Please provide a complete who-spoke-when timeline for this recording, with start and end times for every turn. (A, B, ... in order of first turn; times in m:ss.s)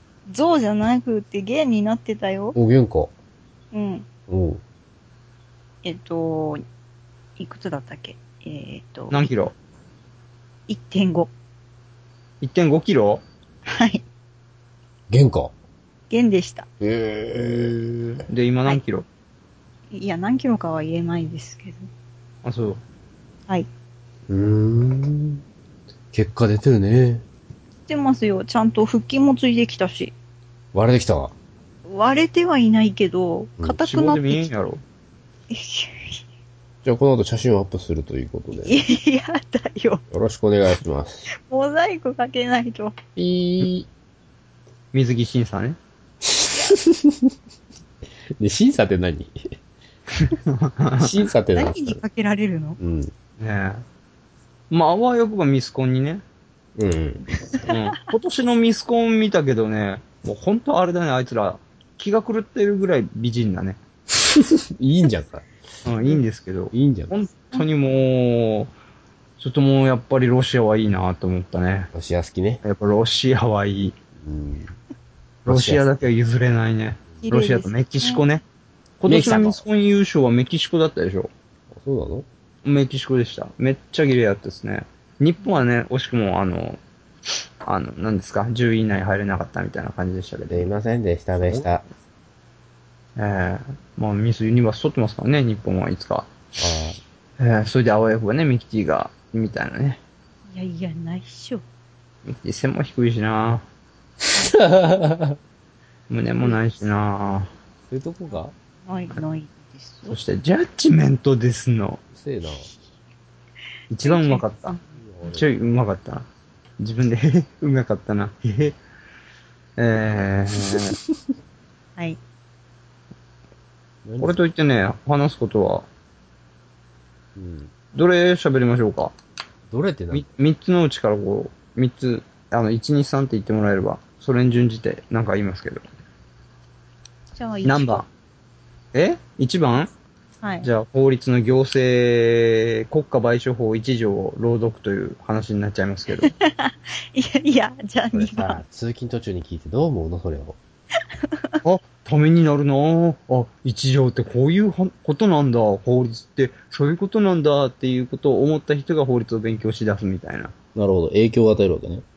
0:00.3-0:02.6 A
0:02.5-0:03.1 B
0:03.7-0:04.0 A
0:04.3-0:04.6 B
0:05.8-0:06.6 A
0:07.4-0:09.3 A
0:09.1-0:09.5 C
0:10.7-0:11.3 A
0:12.4-0:13.2 C
0:13.7-0:14.0 A
0:15.1-0:15.5 B
0:16.1-0:16.7 A
0:16.8-0:18.2 B
0:17.4-0:17.7 C
0:18.3-0:19.0 C
0:19.9-0:21.9 A
0:22.4-0:22.8 C
0:24.3-0:25.4 B
0:26.1-0:27.2 B
0:27.9-0:30.1 A
0:30.7-0:31.3 B
0:31.8-0:34.5 A
0:33.8-0:34.8 C
0:35.5-0:36.2 A
0:36.8-0:38.8 B
0:38.6-0:40.0 A
0:40.1-0:41.2 B
0:41.3-0:43.0 A
0:43.2-0:43.9 B
0:44.9-0:45.8 C
0:46.2-0:47.3 B
0:48.4-0:49.3 B
0:50.8-0:51.1 C
0:51.0-0:52.0 B
0:51.5-0:52.8 A
0:52.8-0:53.1 B
0:53.4-0:53.8 C
0:54.7-0:56.2 C
0:56.8-0:57.3 B
0:57.6-1:03.8 C
1:04.3-1:05.5 B
1:05.8-1:08.7 C
1:06.7-1:07.1 B
1:09.4-1:11.9 C
1:11.9-1:12.6 B
1:12.6-1:14.0 C
1:14.2-1:14.7 B
1:15.4-1:15.9 B
1:15.4-1:18.4 C
1:17.2-1:18.3 A
1:19.0-1:21.3 C
1:19.0-1:19.6 B
1:21.7-1:22.2 B
1:22.6-1:26.8 C
1:25.4-1:25.6 A
1:27.6-1:30.7 C
1:30.5-1:31.8 B
1:31.4-1:31.7 C
1:33.2-1:36.3 C
1:36.6-1:37.0 B
1:37.4-1:40.0 C
1:40.5-1:41.6 A
1:42.2-1:43.6 C
1:44.4-1:45.4 B
1:46.1-1:47.5 C
1:47.9-1:48.5 B
1:48.3-1:50.2 A
1:50.1-1:52.0 C
1:52.1-1:52.7 B
1:53.9-1:56.2 C
1:54.0-1:54.8 A
1:55.0-1:55.4 B
1:56.8-1:58.8 C
1:59.8-2:01.0 C
2:04.0-2:04.4 B
2:04.2-2:05.9 C
2:07.4-2:07.7 B
2:07.9-2:09.1 C
2:09.7-2:10.3 B
2:10.1-2:15.8 C
2:17.3-2:18.0 A
2:17.6-2:18.1 C
2:18.9-2:19.9 C
2:20.4-2:20.7 A
2:20.6-2:26.3 C
2:26.2-2:28.6 A
2:28.1-2:30.6 B
2:31.6-2:40.5 C
2:40.7-2:42.0 B